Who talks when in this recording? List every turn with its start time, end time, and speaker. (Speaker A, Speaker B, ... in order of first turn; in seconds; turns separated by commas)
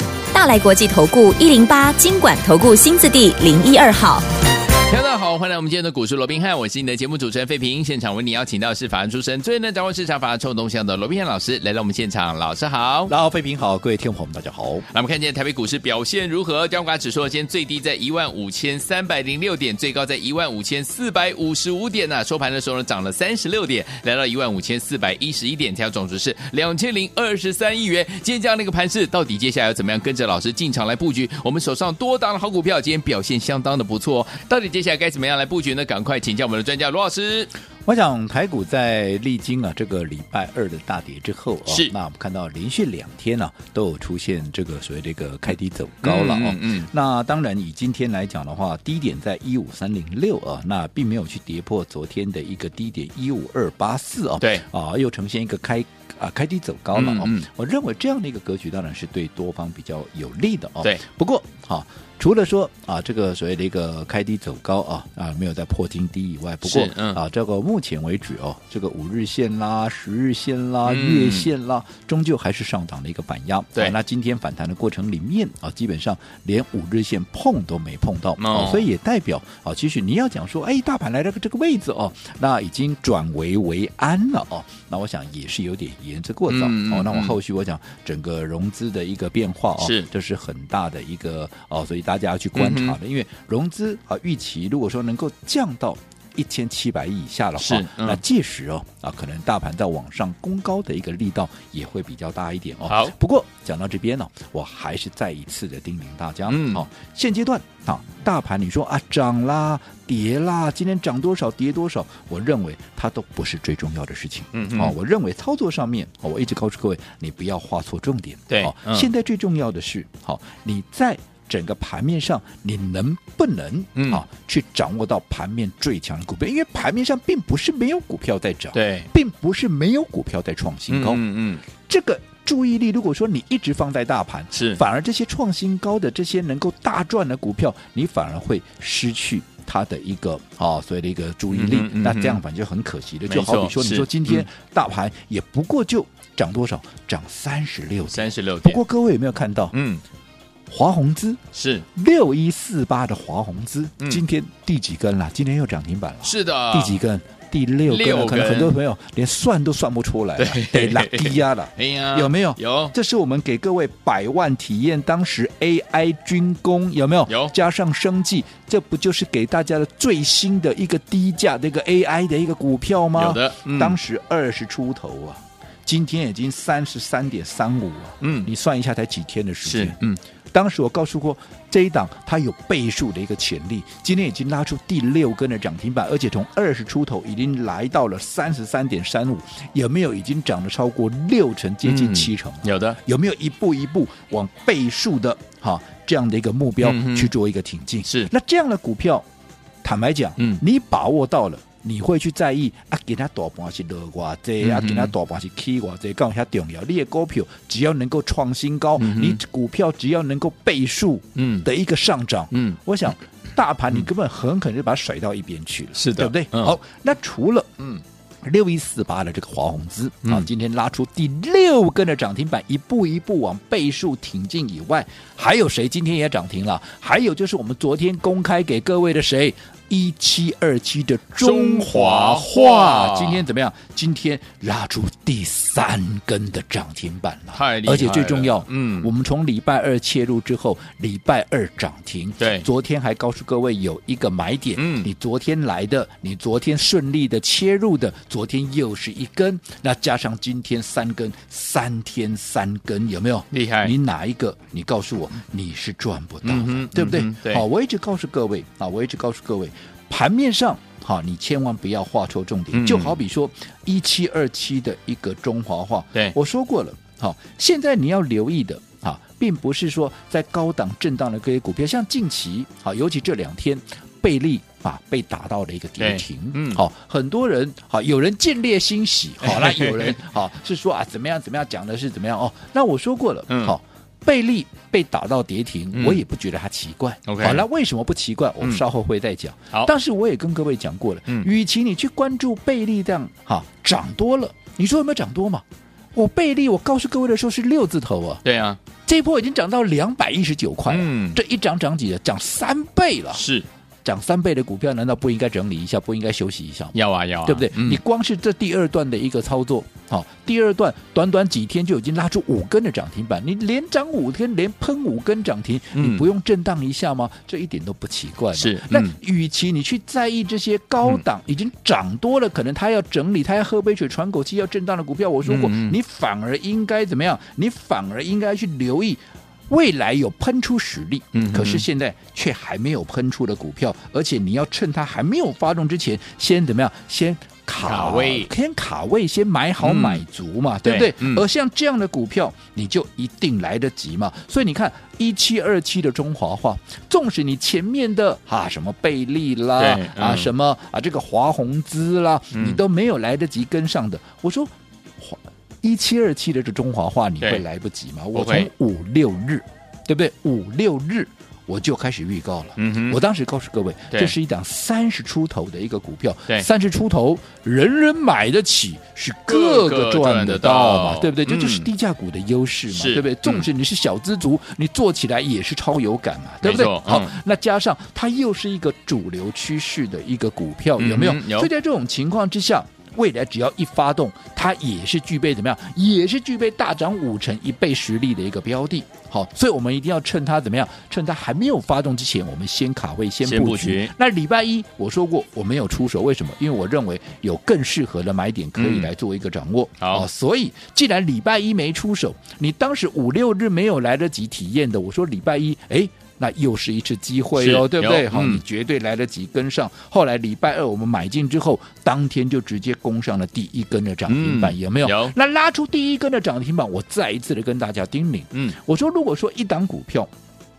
Speaker A: 0.3-4.2, Speaker B: 4.9-13.1, Speaker C: 13.1-14.8, Speaker B: 14.9-37.5, Speaker C: 37.8-131.2, Speaker B: 41.7-41.9, Speaker B: 46.0-46.9, Speaker B: 56.9-57.5, Speaker B: 66.6-67.2, Speaker B: 70.8-71.5, Speaker B: 78.4-78.9, Speaker B: 86.5-87.3, Speaker B: 89.8-90.1, Speaker B: 92.5-93.0, Speaker B: 97.6-98.2, Speaker B: 102.8-103.1, Speaker B: 106.5-106.8, Speaker B: 114.5-114.9, Speaker B: 118.5-119.1, Speaker B: 124.0-124.2, Speaker B: 128.7-129.1, Speaker B: 130.9-131.6, Speaker C: 131.8-149.7, Speaker B: 134.5-134.8, Speaker B: 141.5-142.4, Speaker B: 143.3-144.4, Speaker B: 148.1-148.8, Speaker B: 149.7-150.0, Speaker C: 150.7-151.4, Speaker B: 151.5-151.8, Speaker C: 151.9-180.0, Speaker B: 156.2-157.0, Speaker B: 157.9-158.8, Speaker B: 160.4-162.9, Speaker B: 167.3-167.5, Speaker B: 173.2-174.0, Speaker B: 178.2-178.5, Speaker B: 179.6-180.2, Speaker C: 180.5-199.2, Speaker B: 191.8-193.0, Speaker B: 196.8-197.3, Speaker C: 199.8-217.8, Speaker B: 204.6-205.1, Speaker B: 209.0-209.4, Speaker B: 211.3-211.7, Speaker B: 212.5-212.8, Speaker B: 215.9-216.8, Speaker C: 218.4-295.6, Speaker B: 231.4-233.4, Speaker B: 237.5-239.1, Speaker B: 242.4-242.7, Speaker B: 244.8-245.1, Speaker B: 253.5-253.9, Speaker B: 256.4-257.6, Speaker B: 262.7-263.2, Speaker B: 276.0-276.8, Speaker B: 279.4-280.2, Speaker B: 283.5-283.7, Speaker B: 285.9-286.2, Speaker B: 287.3-287.6, Speaker C: 296.1-298.4, Speaker B: 298.4-298.8, Speaker C: 299.0-303.4, Speaker B: 300.9-301.4, Speaker B: 303.3-303.7, Speaker C: 304.0-420.3, Speaker B: 306.9-308.0, Speaker B: 315.9-316.3, Speaker B: 318.5-319.1, Speaker B: 325.4-326.0, Speaker B: 331.3-331.8, Speaker B: 337.8-338.5, Speaker B: 339.8-340.2, Speaker B: 340.8-341.4, Speaker B: 349.8-350.5, Speaker B: 352.5-352.8, Speaker B: 358.3-358.7, Speaker B: 362.8-363.2, Speaker B: 369.5-371.9, Speaker B: 372.9-373.7, Speaker B: 376.6-377.3, Speaker B: 381.0-381.7, Speaker B: 393.4-394.1, Speaker B: 398.8-399.1, Speaker B: 407.6-408.6, Speaker B: 414.3-415.3